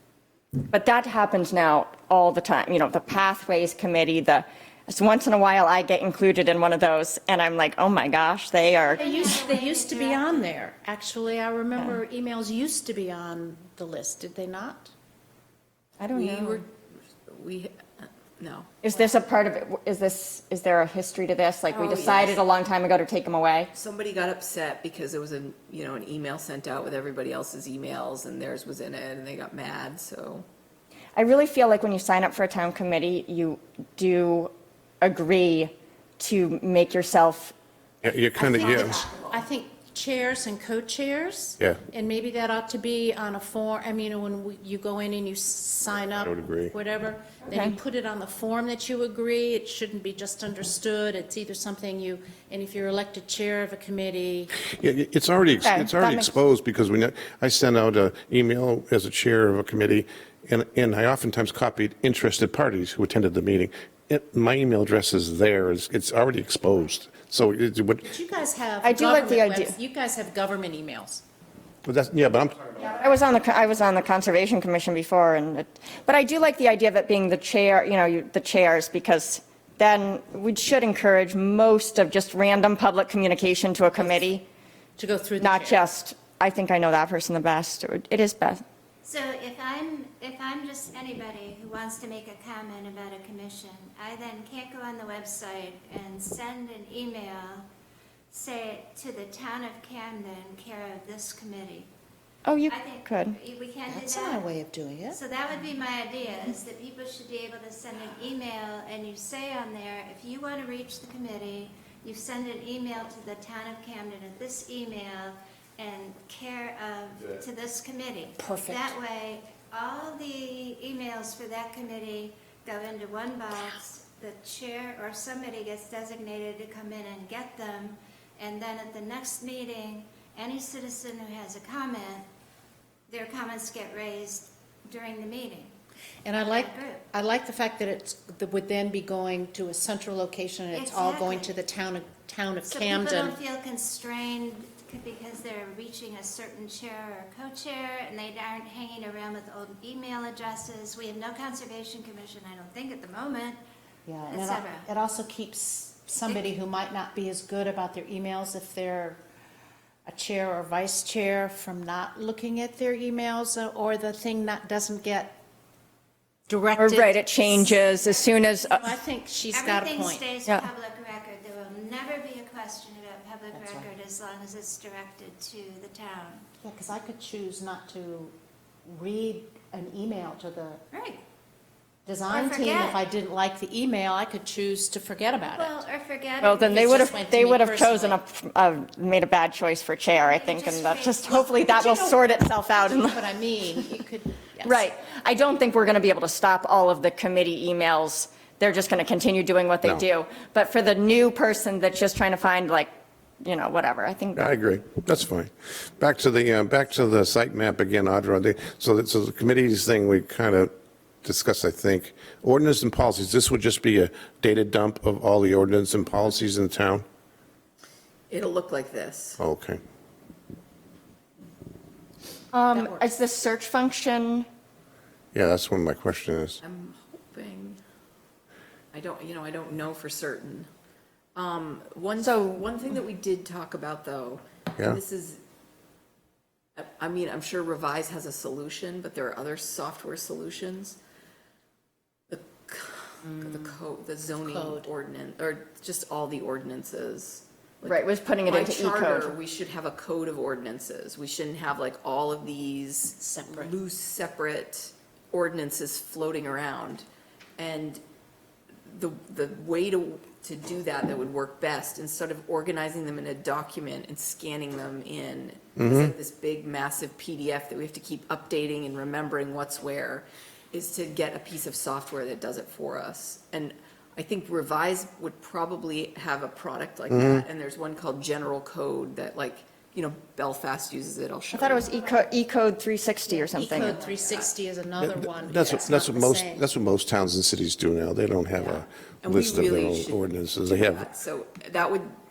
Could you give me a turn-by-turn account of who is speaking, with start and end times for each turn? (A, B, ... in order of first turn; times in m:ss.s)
0:00.7-0:09.0 A
0:08.8-0:10.5 B
0:09.0-0:14.9 C
0:16.0-0:16.6 A
0:16.1-0:16.7 D
0:17.3-0:18.7 D
0:18.8-0:23.7 A
0:21.7-0:22.4 D
0:23.7-0:30.4 D
0:31.2-0:37.5 A
0:38.0-0:39.0 E
0:38.4-0:54.5 C
0:46.2-0:46.7 E
0:54.6-1:08.1 E
0:55.6-0:56.3 A
1:08.0-1:11.2 C
1:08.8-1:09.7 A
1:11.8-1:13.0 E
1:12.8-1:24.4 A
1:25.0-1:25.8 C
1:25.4-1:28.6 A
1:29.0-1:37.7 B
1:38.3-1:41.9 B
1:42.4-1:43.4 A
1:42.7-1:44.4 B
1:43.9-1:45.2 C
1:45.1-2:12.3 B
1:58.4-1:58.8 A
2:13.1-2:15.7 B
2:16.2-2:23.4 C
2:16.4-2:17.0 B
2:20.7-2:21.6 B
2:22.7-2:33.6 B
2:34.1-2:39.2 C
2:34.3-2:34.9 B
2:40.1-2:45.4 C
2:46.5-2:47.3 C
2:46.8-2:48.8 A
2:47.3-2:49.0 B
2:48.8-2:50.2 C
2:49.5-2:56.5 B
2:53.5-2:53.9 C
2:56.6-2:58.3 C
2:58.8-3:00.8 C
3:00.9-3:01.2 B
3:02.0-3:05.8 C
3:02.3-3:03.0 B
3:05.4-3:07.3 B
3:06.4-3:13.3 A
3:06.6-3:08.2 C
3:10.1-3:11.5 B
3:11.4-3:14.9 C
3:14.6-3:22.9 A
3:23.4-3:24.5 A
3:24.4-3:30.7 E
3:31.2-3:37.0 E
3:38.3-3:39.4 D
3:39.4-3:39.8 E
3:42.5-3:44.5 A
3:45.3-3:46.6 E
3:46.6-3:47.8 D
3:48.9-3:50.7 D
3:51.4-3:55.4 D
3:52.2-3:52.6 A
3:56.8-4:01.0 D
4:02.3-4:17.1 D
4:04.4-4:04.9 C
4:07.8-4:09.4 A
4:13.2-4:13.7 C
4:17.6-4:18.0 D
4:18.9-4:42.0 D
4:25.8-4:26.1 E
4:37.1-4:37.5 E
4:41.5-4:44.0 A
4:43.6-4:46.6 C
4:43.6-4:44.5 D
4:45.0-4:51.1 E
4:48.5-4:52.1 D